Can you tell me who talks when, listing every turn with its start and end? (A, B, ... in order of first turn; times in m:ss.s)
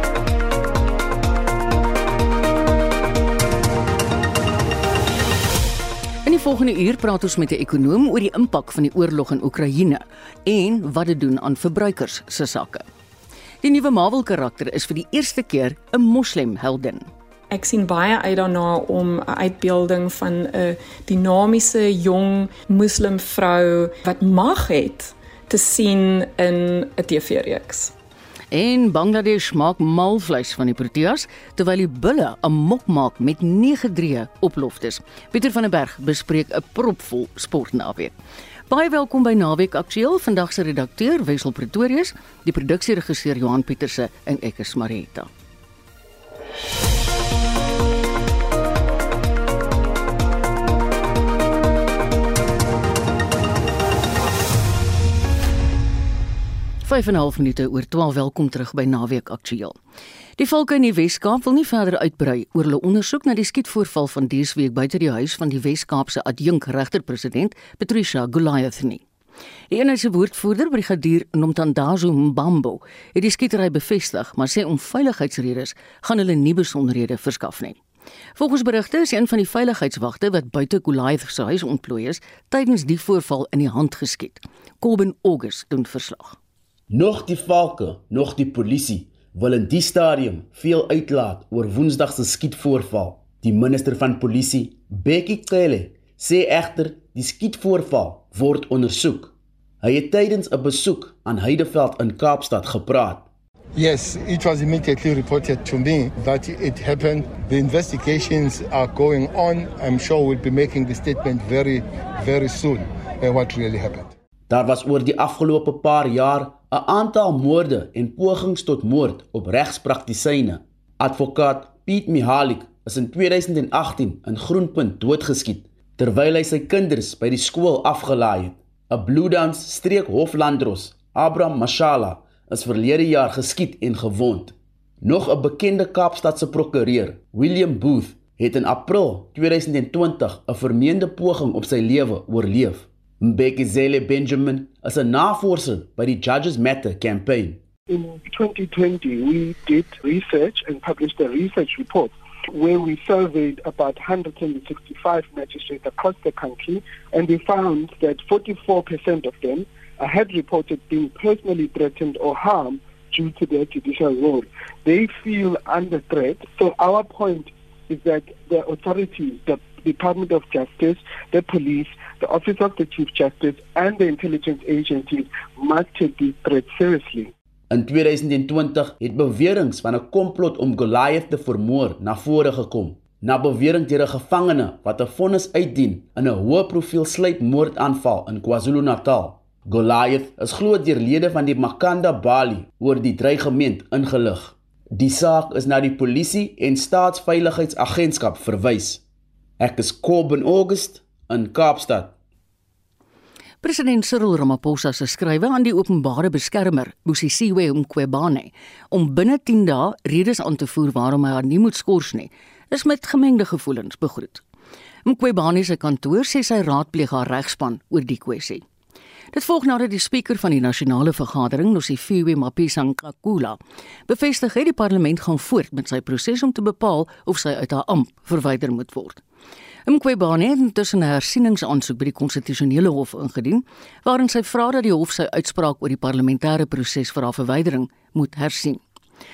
0:06.2-0:12.8 A
0:13.6-0:17.1 A
0:17.5-0:27.9 B
0:28.5-0:38.2 A
0:38.7-0:45.3 A
0:56.8-0:59.8 A
1:00.4-1:09.0 A
1:09.7-1:17.8 A
1:18.4-1:26.4 A
1:26.9-1:43.3 C
1:43.8-1:54.1 D
1:54.5-2:27.6 C
2:27.9-2:57.3 E
2:57.7-3:19.0 C
3:19.6-3:22.2 C
3:23.6-3:34.4 A
3:35.0-3:38.6 A
3:39.3-3:49.2 A
3:49.9-3:58.8 A